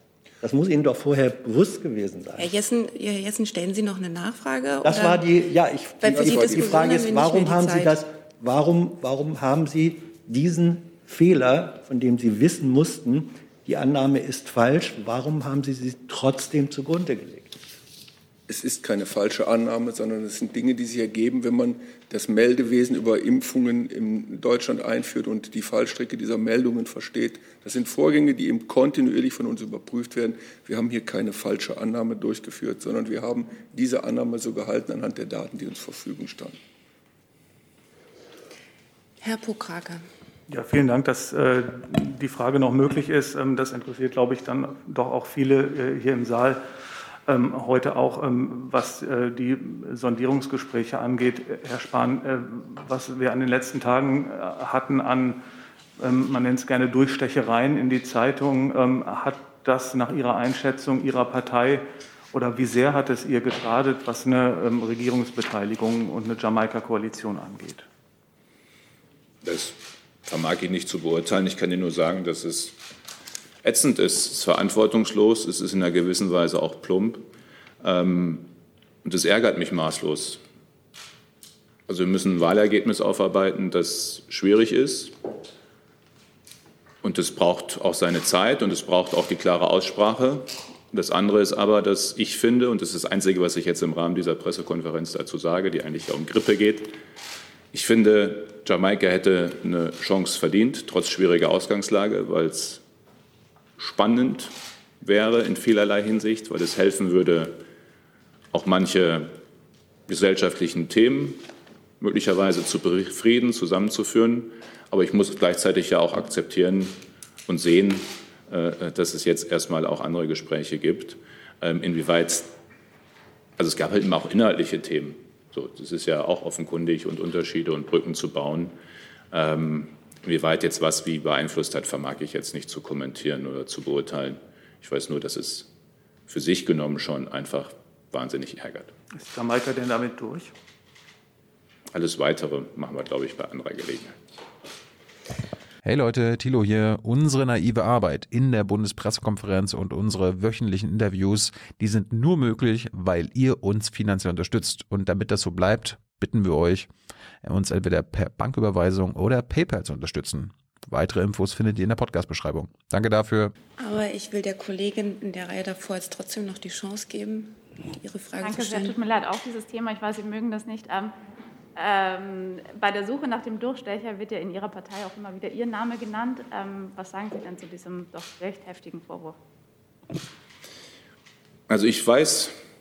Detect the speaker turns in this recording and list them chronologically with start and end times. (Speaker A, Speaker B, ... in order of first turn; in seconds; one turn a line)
Speaker A: 0.4-2.5
Speaker B: 2.4-5.2
Speaker A: 4.8-17.5
Speaker B: 6.0-8.0
Speaker C: 6.1-6.8
Speaker C: 18.5-36.6
Speaker B: 39.2-40.0
Speaker D: 40.5-46.6
Speaker D: 47.3-55.4
Speaker D: 56.0-67.9
Speaker E: 69.4-72.8
Speaker E: 73.6-77.2
Speaker E: 77.8-78.5
Speaker E: 79.0-80.4
Speaker E: 81.9-85.2
Speaker E: 87.0-97.0
Speaker E: 97.7-102.8
Speaker E: 103.8-107.6
Speaker E: 108.5-109.4
Speaker E: 110.1-111.5
Speaker E: 112.0-122.5
Speaker E: 123.6-128.8
Speaker E: 129.3-135.7
Speaker E: 136.3-138.9
Speaker D: 139.1-140.5
Speaker E: 141.9-144.2
Speaker F: 145.8-156.9
Speaker F: 157.4-163.5
Speaker B: 163.8-169.0
Speaker G: 168.4-171.1
Speaker G: 171.8-179.4
Speaker E: 181.7-182.6